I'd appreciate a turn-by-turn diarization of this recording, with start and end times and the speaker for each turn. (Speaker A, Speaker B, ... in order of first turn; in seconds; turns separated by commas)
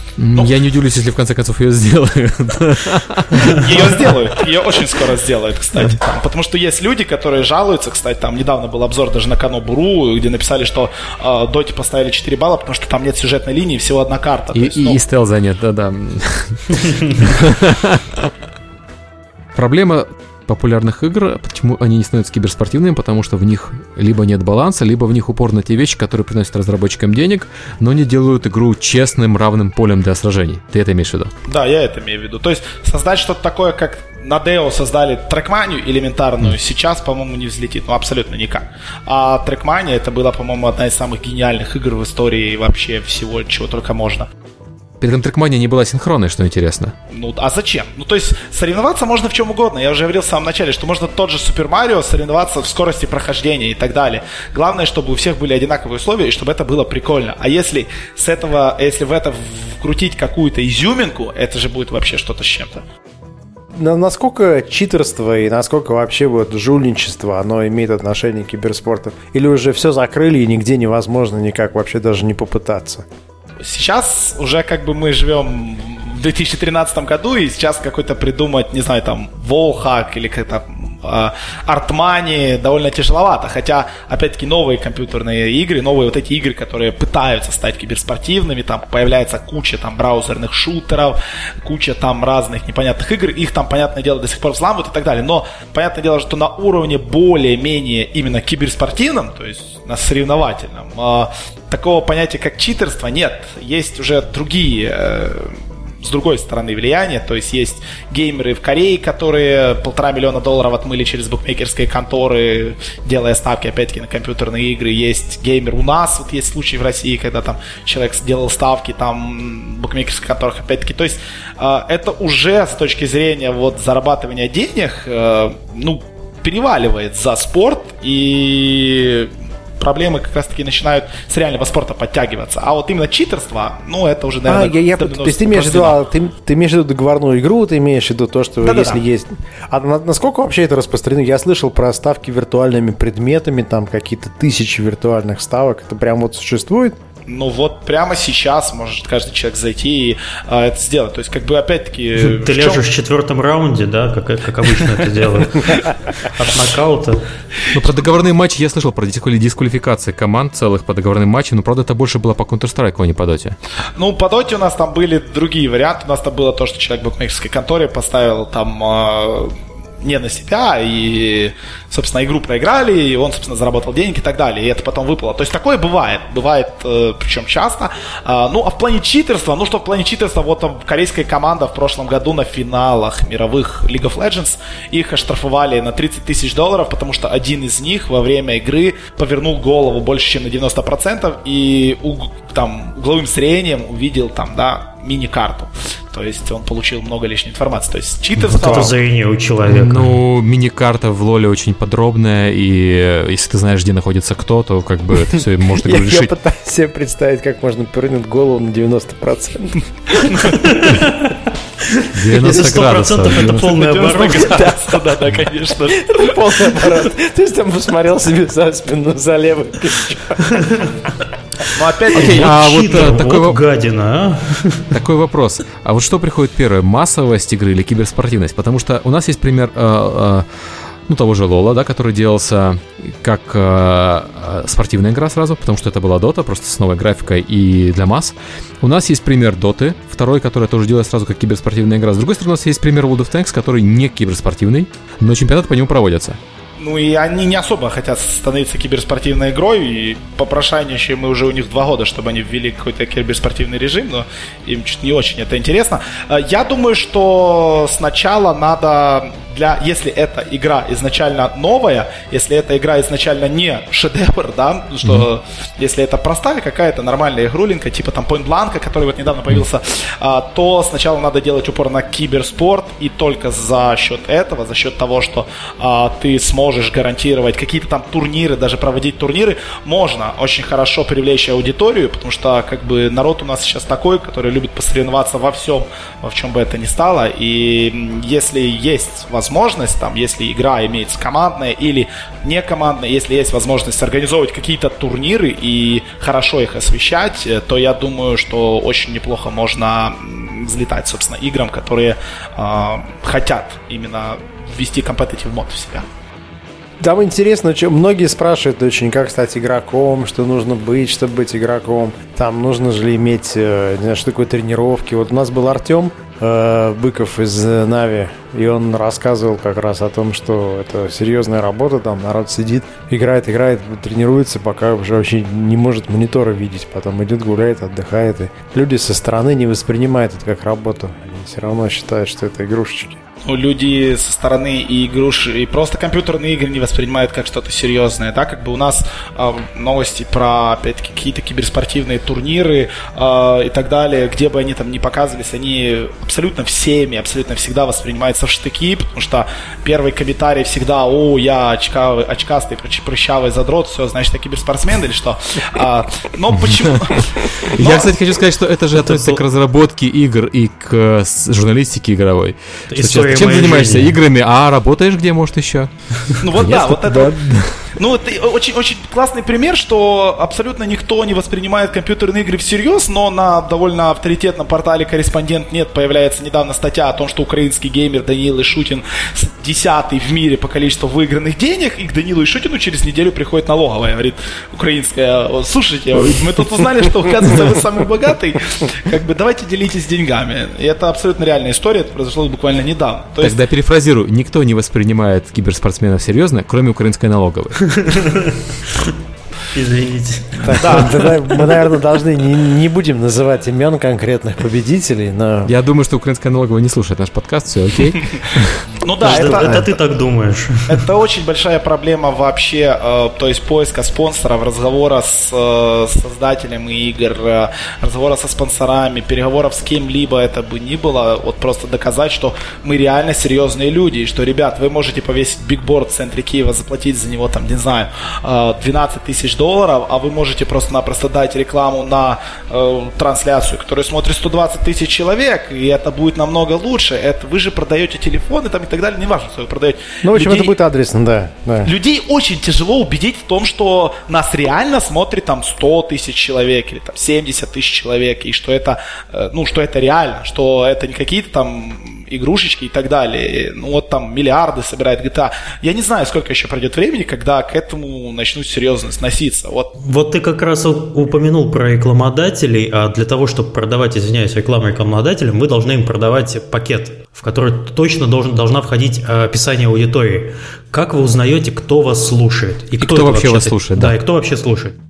Speaker A: 0.2-4.3, Speaker B: 3.6-15.0, Speaker A: 14.5-18.3, Speaker A: 19.6-31.3, Speaker B: 31.5-44.3, Speaker A: 45.0-46.9, Speaker B: 47.1-62.8, Speaker C: 63.7-73.0, Speaker B: 73.6-136.0, Speaker C: 134.5-147.0, Speaker B: 138.6-139.0, Speaker B: 147.3-152.8, Speaker D: 152.2-157.3, Speaker A: 157.7-163.6, Speaker B: 164.0-199.0, Speaker D: 198.4-200.2, Speaker A: 199.7-206.3, Speaker C: 205.8-210.6, Speaker B: 210.2-210.5, Speaker D: 210.5-214.8, Speaker A: 212.1-213.7, Speaker B: 213.3-216.8, Speaker C: 215.9-220.8, Speaker B: 221.7-222.5, Speaker D: 222.1-224.9, Speaker A: 222.1-223.6, Speaker A: 224.9-230.5, Speaker A: 231.1-246.4, Speaker B: 246.8-306.1, Speaker C: 307.0-333.2, Speaker B: 333.4-358.4, Speaker A: 356.7-368.0, Speaker D: 359.0-359.4, Speaker D: 362.9-364.2, Speaker B: 366.4-367.4, Speaker B: 367.9-393.6, Speaker A: 393.4-398.0, Speaker D: 397.9-399.1, Speaker D: 399.7-401.5, Speaker C: 400.6-405.7, Speaker B: 400.8-401.3, Speaker A: 405.7-408.9, Speaker B: 408.9-409.9, Speaker D: 409.2-411.0, Speaker B: 410.9-440.8, Speaker C: 440.2-441.9, Speaker B: 441.8-459.9, Speaker D: 460.0-475.0, Speaker A: 473.0-474.2